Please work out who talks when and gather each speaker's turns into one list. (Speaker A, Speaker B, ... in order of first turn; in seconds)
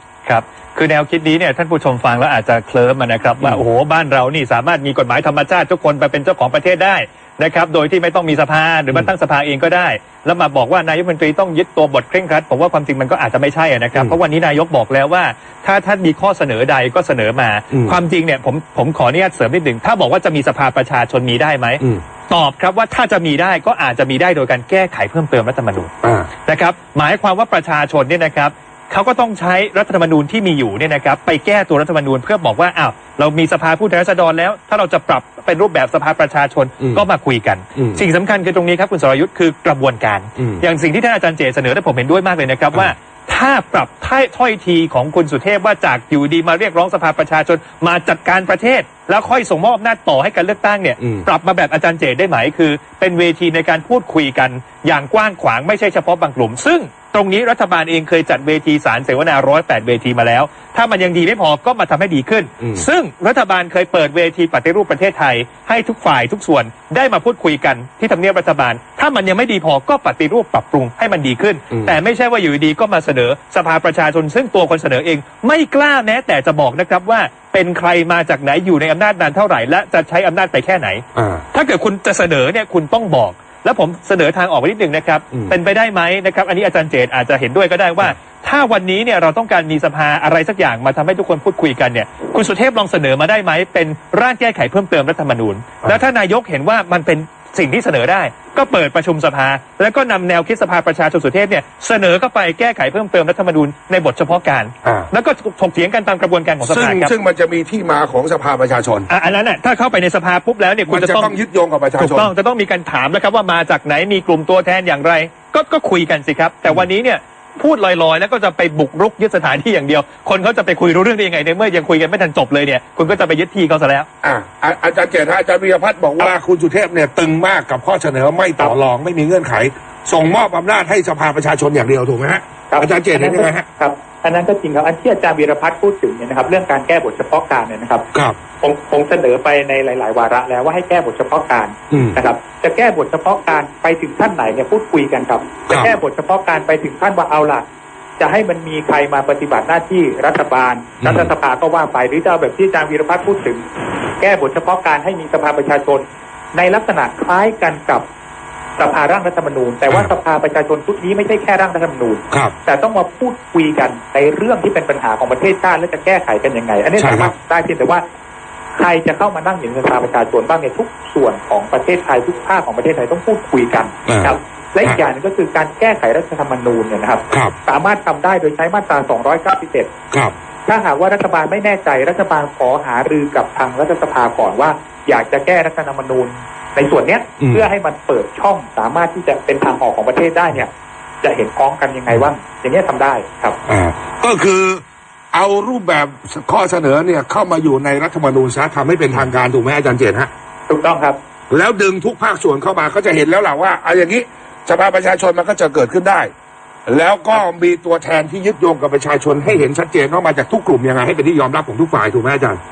Speaker A: 0.2-25.9, 26.4-107.1, 109.1-111.3, 112.0-124.1
Speaker B: 17.7-18.0, 26.0-26.3, 37.7-38.0, 40.4-40.6, 51.0-51.3, 62.6-62.8, 71.7-72.0, 81.1-81.4, 104.8-105.1, 106.6-109.1, 110.9-112.3, 124.2-133.7, 141.9-142.2, 145.7-145.9, 151.0-151.3, 167.0-167.3, 174.1-175.0, 187.4-187.7, 193.7-194.8, 195.3-200.3, 201.5-206.3, 206.9-212.6
Speaker C: 132.7-138.0, 138.6-147.6, 148.2-153.6, 154.2-158.0, 158.8-168.0, 168.8-179.9, 180.7-190.7, 191.2-193.6, 200.7-201.2